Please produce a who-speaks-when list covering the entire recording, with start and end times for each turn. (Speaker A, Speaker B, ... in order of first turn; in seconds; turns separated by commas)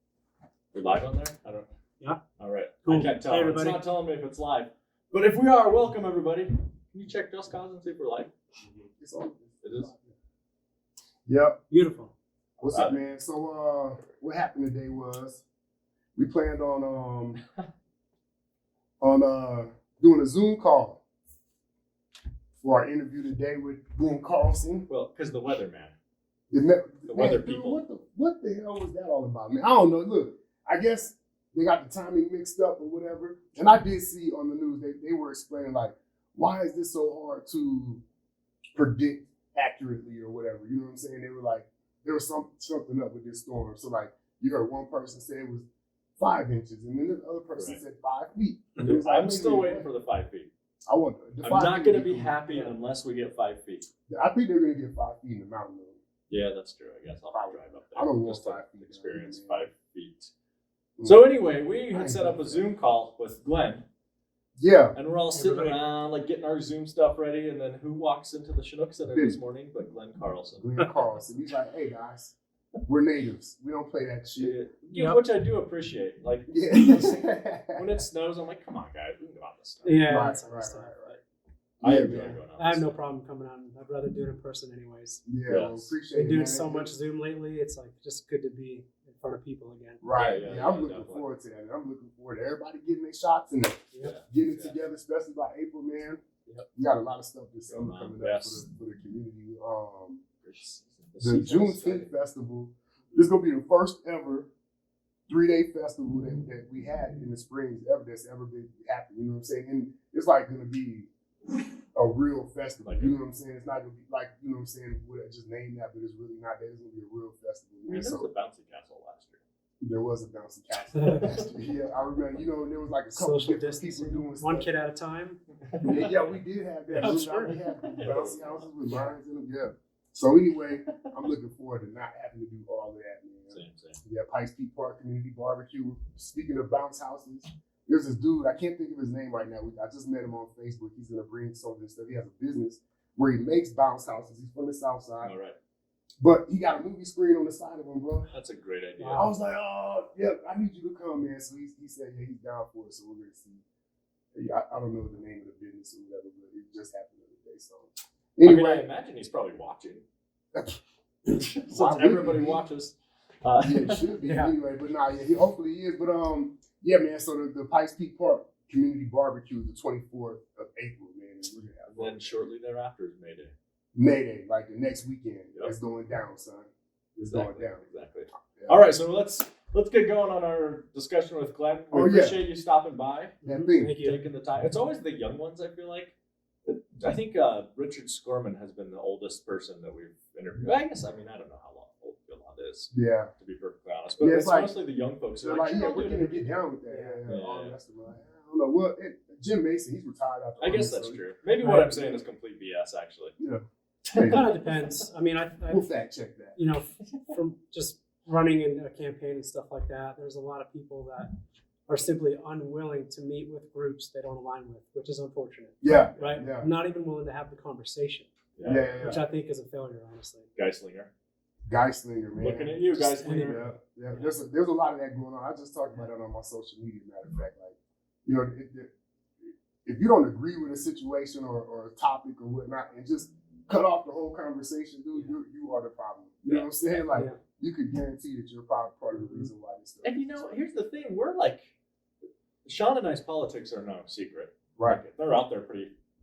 Speaker A: 0.7-1.7, Speaker A: 2.4-8.3, Speaker B: 2.8-3.8, Speaker C: 8.6-10.1, Speaker A: 9.6-9.9, Speaker C: 11.2-11.6, Speaker B: 11.7-12.1, Speaker C: 12.6-15.4, Speaker A: 12.7-13.0, Speaker C: 16.1-17.4, Speaker C: 19.0-21.0, Speaker C: 22.6-24.9, Speaker A: 24.9-25.9, Speaker C: 26.5-38.0, Speaker A: 27.1-27.8, Speaker C: 38.8-45.6, Speaker C: 46.2-49.9, Speaker A: 47.5-47.8, Speaker A: 48.8-50.5, Speaker C: 50.9-52.7, Speaker A: 51.4-53.9, Speaker C: 54.1-56.0, Speaker A: 56.3-60.3, Speaker C: 57.3-59.7, Speaker C: 61.0-61.3, Speaker A: 61.0-63.8, Speaker C: 61.9-62.7, Speaker C: 64.6-65.0, Speaker A: 64.9-70.7, Speaker B: 65.3-65.8, Speaker C: 69.1-69.4, Speaker C: 70.6-72.3, Speaker C: 72.9-74.6, Speaker A: 74.4-80.1, Speaker B: 74.9-75.2, Speaker C: 76.5-78.0, Speaker B: 79.8-81.0, Speaker C: 80.0-81.2, Speaker A: 81.8-82.9, Speaker C: 81.8-82.4, Speaker B: 82.5-85.2, Speaker C: 85.2-86.9, Speaker A: 85.5-85.9, Speaker B: 86.1-90.0, Speaker C: 90.0-96.2, Speaker A: 90.1-91.3, Speaker A: 94.0-94.8, Speaker C: 96.8-100.2, Speaker A: 97.7-98.6, Speaker A: 100.4-102.1, Speaker C: 101.2-104.5, Speaker C: 105.3-111.1, Speaker C: 112.0-118.3, Speaker A: 112.8-113.2, Speaker A: 117.9-119.4, Speaker C: 119.8-124.7, Speaker B: 120.9-121.3, Speaker B: 123.2-125.4, Speaker A: 125.7-126.4, Speaker C: 125.8-145.3, Speaker B: 126.9-127.8, Speaker A: 127.8-128.7, Speaker A: 133.5-134.0, Speaker A: 145.2-145.6, Speaker C: 146.2-148.3, Speaker A: 148.3-149.3, Speaker B: 149.0-149.3, Speaker C: 149.1-153.6, Speaker C: 154.3-158.9, Speaker A: 158.4-160.0, Speaker C: 160.5-160.8, Speaker A: 161.3-164.1, Speaker C: 161.4-162.7, Speaker C: 163.6-172.4, Speaker B: 164.2-164.5, Speaker A: 171.9-173.5, Speaker C: 173.9-177.8, Speaker A: 177.2-183.4, Speaker C: 178.6-178.8, Speaker C: 181.9-182.4, Speaker B: 183.4-184.2, Speaker C: 183.4-184.0, Speaker A: 184.0-186.1, Speaker A: 186.6-196.5, Speaker C: 192.9-193.3, Speaker C: 194.2-194.7, Speaker C: 195.3-201.2, Speaker B: 196.9-197.3, Speaker A: 197.3-197.8, Speaker A: 200.6-203.3, Speaker B: 201.6-202.2, Speaker C: 203.4-204.5, Speaker A: 204.1-205.0, Speaker B: 204.2-205.8, Speaker C: 205.7-206.6, Speaker B: 206.5-211.3, Speaker A: 207.1-207.3, Speaker B: 211.9-218.3, Speaker C: 215.8-216.7, Speaker A: 218.6-219.2, Speaker C: 218.6-219.2, Speaker B: 219.0-220.5, Speaker A: 220.6-221.1, Speaker C: 221.7-228.9, Speaker A: 222.4-223.6, Speaker B: 223.2-223.6, Speaker C: 229.8-240.6, Speaker A: 236.4-237.1, Speaker B: 237.1-237.4, Speaker B: 239.1-239.5, Speaker A: 240.0-241.7, Speaker A: 242.6-245.9, Speaker C: 244.8-245.0